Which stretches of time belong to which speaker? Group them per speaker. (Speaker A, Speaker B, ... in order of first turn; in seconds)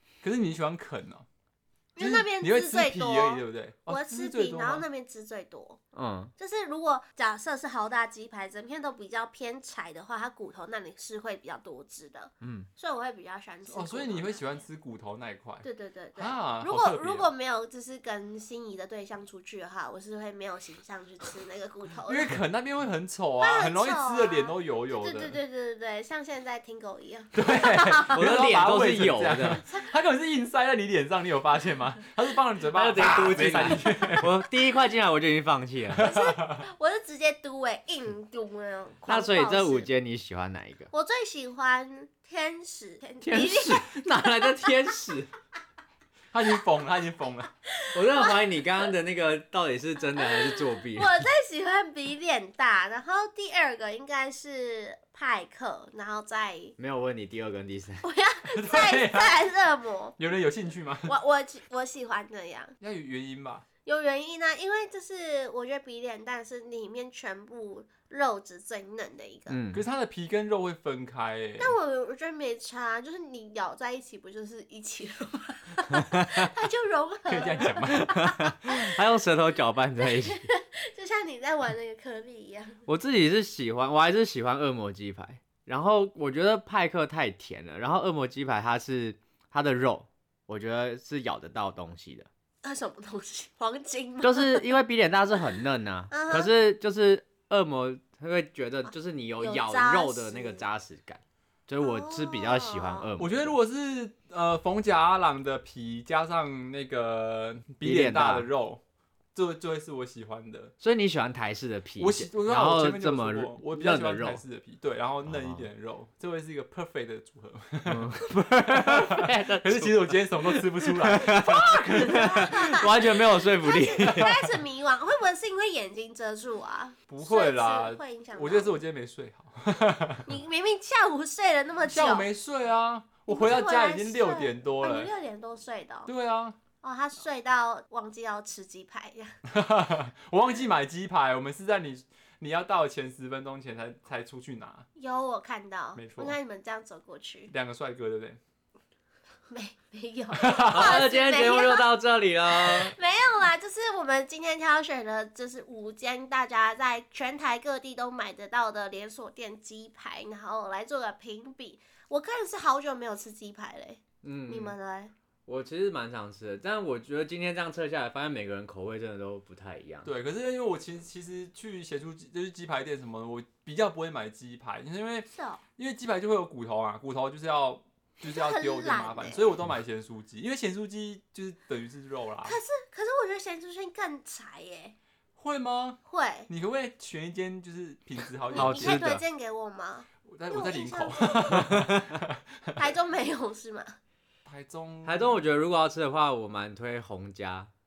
Speaker A: 0.2-1.3, 2.0-4.8, 13.7-15.7, 16.2-17.3, 22.1-25.4, 27.4-34.3, 36.0-36.6, 46.3-47.5, 58.5-59.4, 60.2-61.1, 62.8-63.6, 69.7-71.8, 77.3-78.2, 103.2-108.8, 109.3-110.7, 112.0-122.8, 124.1-124.5, 127.1-130.3, 131.9-135.1, 136.1-136.6, 139.5-144.9, 145.9-146.4, 147.5-148.4, 150.3-151.0, 170.1-182.6, 185.4-189.1, 190.3-192.8, 194.5-195.4
Speaker B: 2.0-5.8, 6.4-14.4, 15.6-22.3, 23.4-28.2, 36.0-39.9, 40.9-44.7, 47.8-48.4, 50.2-56.8, 58.0-60.2, 61.0-62.7, 63.9-69.6, 71.6-78.9, 80.0-82.8, 92.6-94.6, 96.1-96.5, 99.4-100.7, 101.8-103.1, 122.1-128.8, 130.2-132.3, 133.3-136.1, 136.8-139.3, 145.0-147.5, 149.5-152.0, 152.5-165.1, 175.3-175.6, 178.2-179.5, 182.4-184.9, 186.1-186.5, 188.5-191.7, 192.8-194.0
Speaker C: 5.9-6.3, 12.4-12.7, 28.1-29.6, 32.7-36.1, 39.1-40.9, 43.2-45.3, 47.9-51.2, 56.8-58.0, 69.5-69.8, 75.9-76.5, 77.9-80.5, 82.9-92.3, 94.2-103.5, 107.8-108.5, 110.8-114.4, 115.3-115.7, 117.9-124.3, 150.7-152.9, 164.2-164.8, 165.5-170.1, 188.6-189.2, 191.5-192.2, 195.1-197.7